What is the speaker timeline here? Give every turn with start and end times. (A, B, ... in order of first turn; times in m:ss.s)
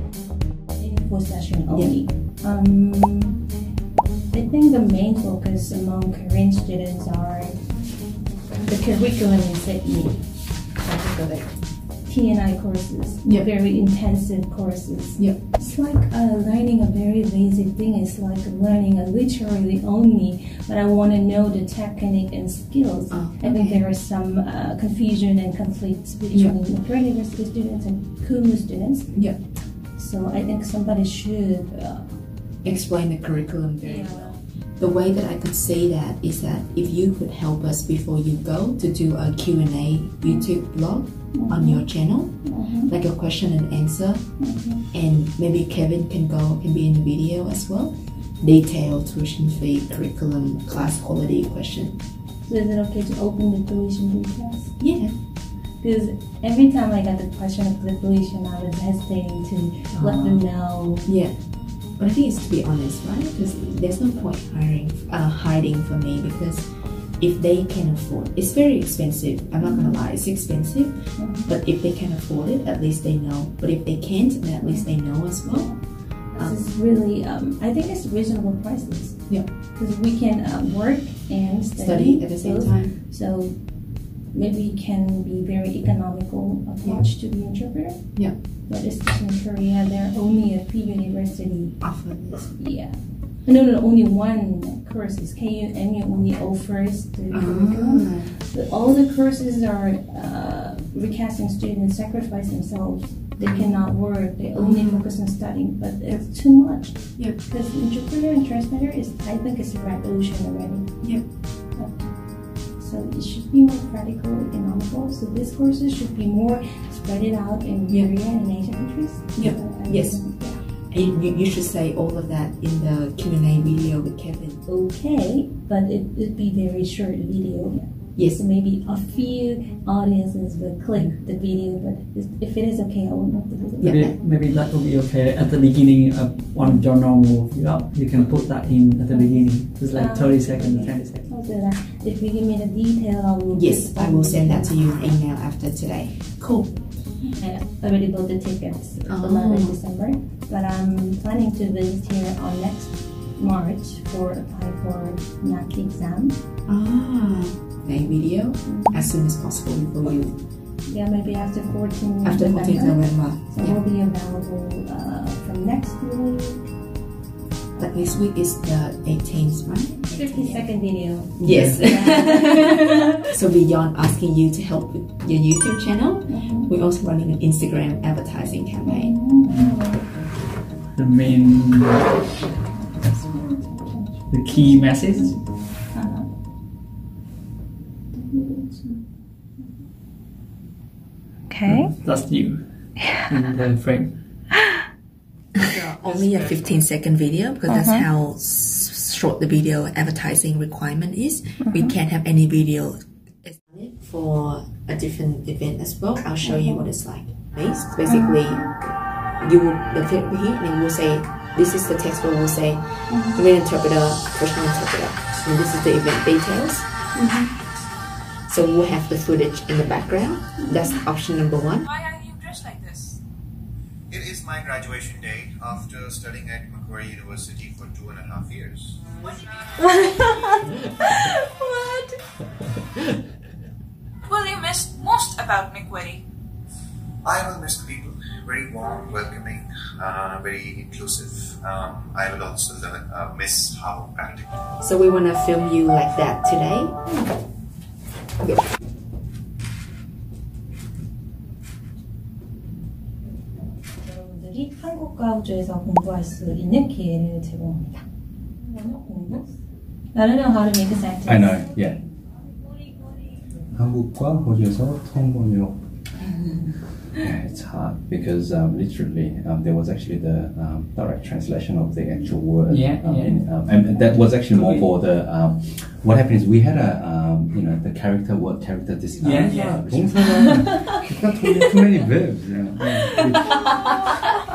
0:00.7-0:03.4 A
0:01.7-0:01.9 B
0:04.3-0:07.6 A
0:08.7-0:29.4 A
0:23.1-0:23.8 B
0:29.9-0:32.2 A
0:32.6-0:44.4 B
0:33.8-0:34.4 A
0:40.2-0:40.5 A
0:41.3-0:42.9 A
0:44.4-0:44.8 A
0:44.9-0:52.0 B
0:52.4-0:54.8 A
0:54.8-0:55.1 B
0:55.8-1:01.1 A
0:59.9-1:00.5 B
1:01.0-1:16.6 B
1:09.6-1:10.0 A
1:11.2-1:11.5 A
1:15.5-1:23.6 A
1:21.8-1:23.0 B
1:24.3-1:31.8 A
1:31.8-1:32.5 B
1:32.3-1:51.1 A
1:37.3-1:38.3 B
1:43.4-1:43.9 B
1:44.6-1:45.1 B
1:51.0-1:51.3 B
1:51.6-2:00.6 A
1:59.4-2:04.6 B
2:04.7-2:14.0 A
2:08.2-2:08.4 B
2:13.8-2:14.2 B
2:13.8-2:21.3 C
2:19.1-2:25.2 A
2:23.5-2:26.9 B
2:27.2-2:36.4 A
2:29.1-2:29.8 B
2:36.7-2:40.4 B
2:38.6-2:39.1 A
2:40.9-2:46.7 A
2:42.2-2:43.8 B
2:47.8-2:59.2 B
2:50.1-2:53.1 A
2:51.4-2:51.8 C
2:56.3-2:56.7 A
2:58.8-3:00.1 A
2:59.5-2:59.8 C
3:01.0-3:02.2 C
3:03.0-3:06.4 A
3:04.3-3:05.4 C
3:08.1-3:09.0 A
3:11.5-3:11.9 A
3:11.7-3:14.2 C
3:13.0-3:13.3 A
3:15.6-3:28.8 B
3:17.7-3:18.0 A
3:21.6-3:22.0 A
3:26.4-3:26.9 A
3:28.1-3:28.4 A
3:29.3-3:36.9 B
3:33.1-3:33.4 A
3:37.1-3:37.5 A
3:38.5-3:41.9 B
3:40.6-3:41.0 A
3:42.0-3:43.2 D
3:44.1-3:49.0 E
3:49.8-3:50.6 A
3:51.2-3:52.1 A
3:54.3-3:56.2 D
3:57.2-4:04.6 E
4:04.8-4:07.0 B
4:07.1-4:07.4 A
4:08.4-4:08.7 B
4:14.0-4:18.1 A
4:18.6-4:19.6 A
4:20.1-4:21.8 A
4:21.3-4:22.0 F
4:23.7-4:25.8 F
4:27.1-4:43.7 F
4:32.7-4:34.9 C
4:39.2-4:40.7 C
4:40.3-4:40.7 A